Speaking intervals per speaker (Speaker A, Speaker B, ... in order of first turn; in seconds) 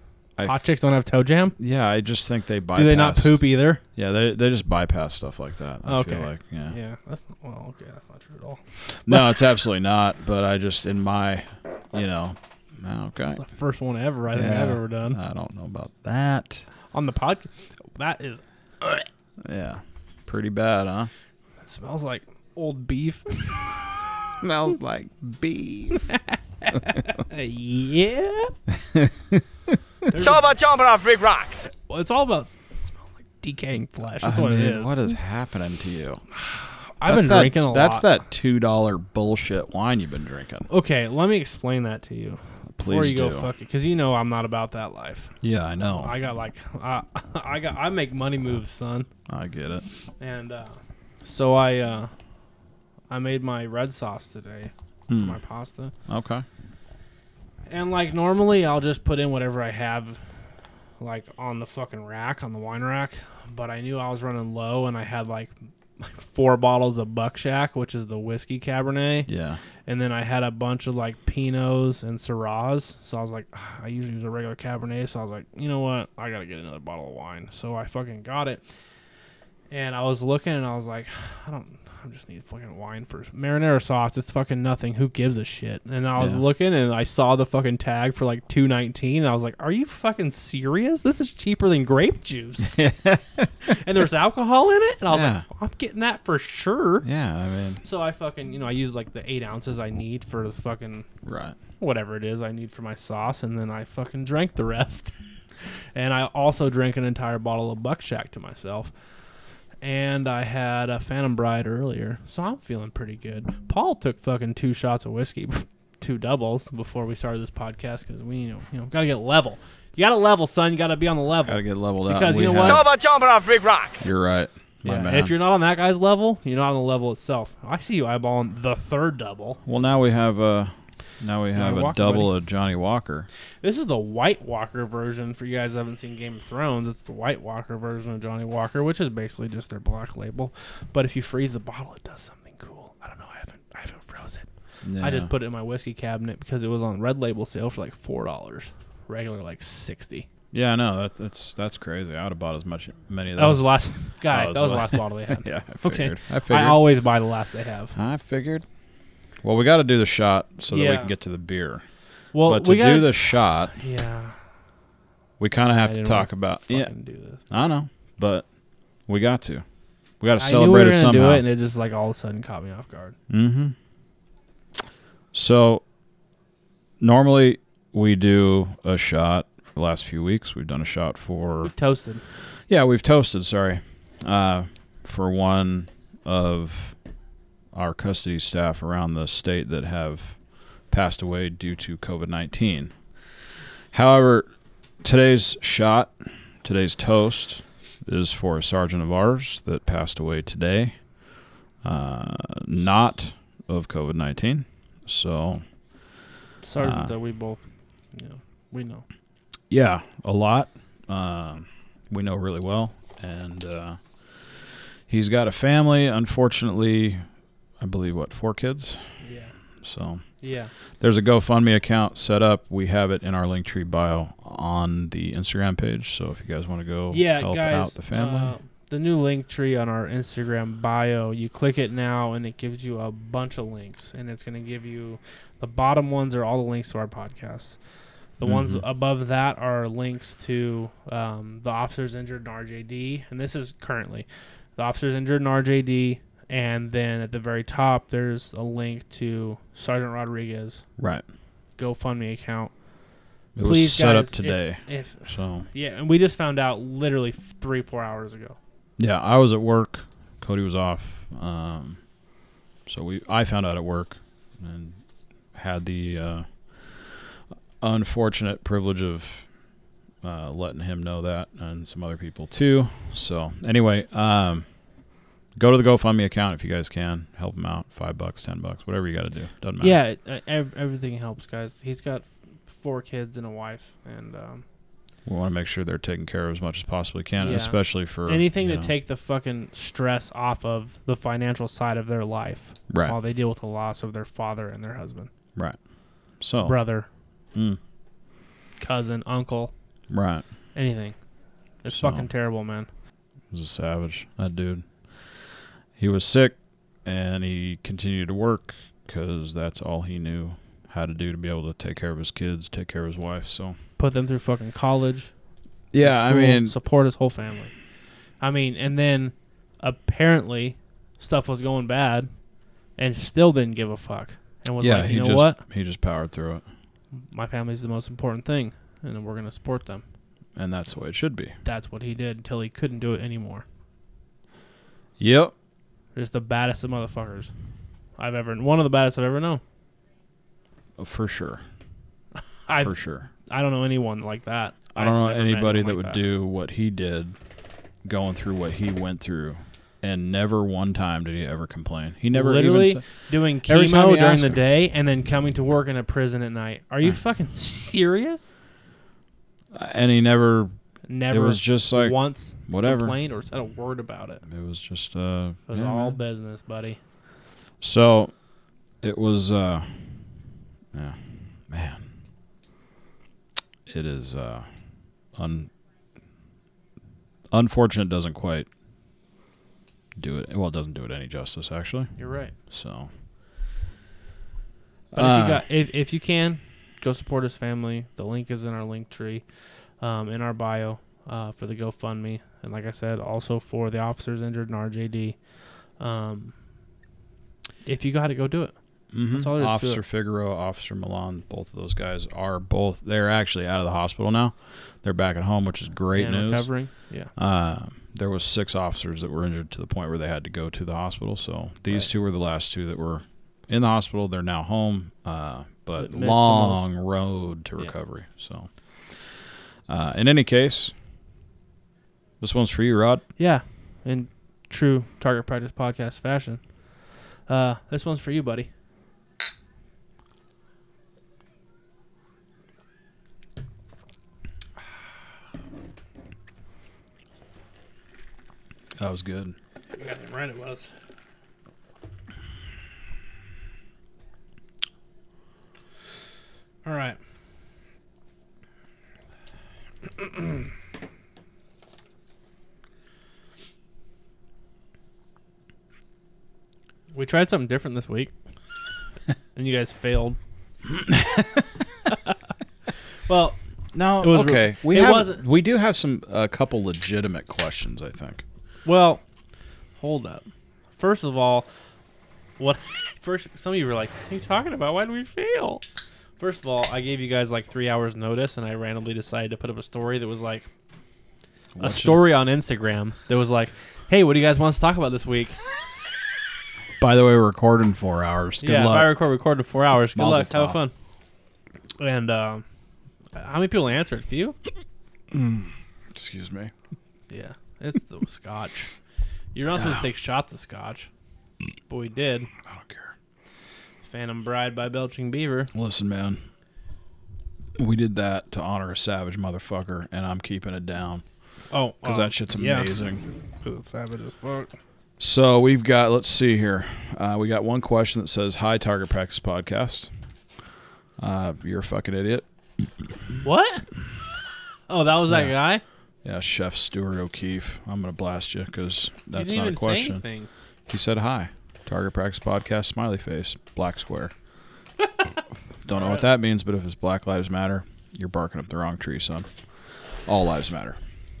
Speaker A: 0.4-1.6, 2.7-3.8, 5.8-9.4, 13.3-15.2, 16.9-19.0, 21.6-23.8, 25.9-28.5, 30.1-30.5, 31.7-35.1, 36.5-38.0, 40.7-45.3, 45.9-49.1, 50.2-52.1, 53.1-55.9, 57.7-60.2, 61.0-69.3, 69.8-78.6, 79.7-92.8, 93.6-97.1, 97.8-101.0, 101.8-105.1, 105.9-108.9, 109.8-122.8, 124.8-129.6, 131.5-132.3, 133.6-150.3, 153.4-157.9, 160.7-161.1, 162.3-164.4, 165.7-167.4, 170.4-173.2, 181.6-182.2, 206.6-207.6, 208.1-209.0, 219.2-219.5, 220.4-220.7, 227.1-237.8, 238.4-244.2, 244.8-250.8, 251.8-252.7, 253.6-258.6, 279.8-284.6, 287.4-295.3, 296.6-297.1, 298.8-299.7, 300.7-301.1, 301.8-302.9, 314.0-315.3, 316.0-317.7, 318.4-322.3, 322.9-325.6, 327.3-330.0, 331.6-333.6, 336.1-337.5, 338.2-339.6, 342.7-346.2, 352.3-358.5, 361.1-364.4, 365.7-367.0, 382.2-382.5, 385.1-389.4, 390.0-395.4, 396.0-396.5, 397.8-398.7, 399.3-400.0, 406.1-407.3, 416.0-416.9, 423.4-426.6, 427.5-428.7, 439.9-440.9, 446.8-447.2, 457.1-458.3, 459.6-460.4, 463.3-463.6, 464.2-465.4, 468.8-469.2, 470.0-470.4, 471.0-471.7, 472.6-475.8, 476.4-480.7, 481.8-485.6, 488.6-490.9, 492.0-492.6, 493.3-494.6, 497.3-498.9, 499.5-501.1, 501.9-502.5, 504.0-505.7, 511.7-512.9, 513.6-514.7, 523.4-523.9, 524.9-525.8, 529.3-530.5, 535.9-536.2
Speaker B: 1.6-3.4, 4.0-6.8, 9.0-13.4, 14.3-16.6, 19.4-21.1, 24.4-26.1, 28.7-29.8, 34.2-36.2, 37.0-40.7, 42.8-43.5, 45.4-46.1, 49.3-49.8, 55.1-55.4, 56.1-56.4, 69.3-69.6, 86.2-86.4, 92.6-93.5, 95.1-95.4, 97.0-97.8, 101.2-101.6, 121.4-122.8, 124.0-125.3, 129.7-133.3, 144.8-145.3, 150.5-156.9, 157.9-158.6, 159.4-161.8, 162.4-163.7, 165.4-166.9, 167.5-168.5, 169.1-169.6, 170.2-171.4, 173.3-173.8, 175.3-175.8, 177.0-181.7, 182.7-186.9, 187.7-190.4, 190.9-192.9, 193.9-194.5, 195.0-201.0, 201.8-205.6, 206.8-207.1, 209.7-214.0, 215.1-217.2, 217.8-219.0, 219.8-220.2, 221.0-228.6, 238.4-238.8, 251.0-251.2, 253.5-255.7, 259.0-262.0, 262.9-265.0, 265.5-267.3, 267.8-269.4, 270.2-274.7, 275.6-279.9, 285.2-288.9, 292.9-293.1, 296.4-296.8, 297.5-297.8, 300.1-300.4, 301.9-302.3, 303.5-304.9, 306.0-313.8, 315.9-316.8, 324.8-326.6, 330.6-331.6, 335.2-335.5, 341.0-341.6, 342.7-343.3, 344.9-347.4, 348.0-353.0, 353.6-354.6, 359.7-360.7, 361.3-363.1, 364.4-366.2, 367.8-368.3, 369.0-370.1, 370.9-372.0, 373.9-374.7, 375.3-375.7, 377.5-378.7, 380.2-382.1, 382.6-383.1, 385.1-385.6, 399.1-406.7, 407.4-418.7, 419.9-420.9, 422.4-423.2, 439.0-439.5, 460.9-461.6, 463.9-468.4, 481.7-482.2, 487.0-489.2, 490.1-490.8, 495.3-496.7, 499.7-500.1, 502.6-503.1, 505.7-506.4, 507.8-511.2, 512.0-513.2, 515.2-520.1, 521.2-522.4, 525.3-525.5, 526.2-530.2, 530.9-534.3, 535.8-539.5, 540.2-541.0
Speaker C: 30.1-31.7, 122.6-124.1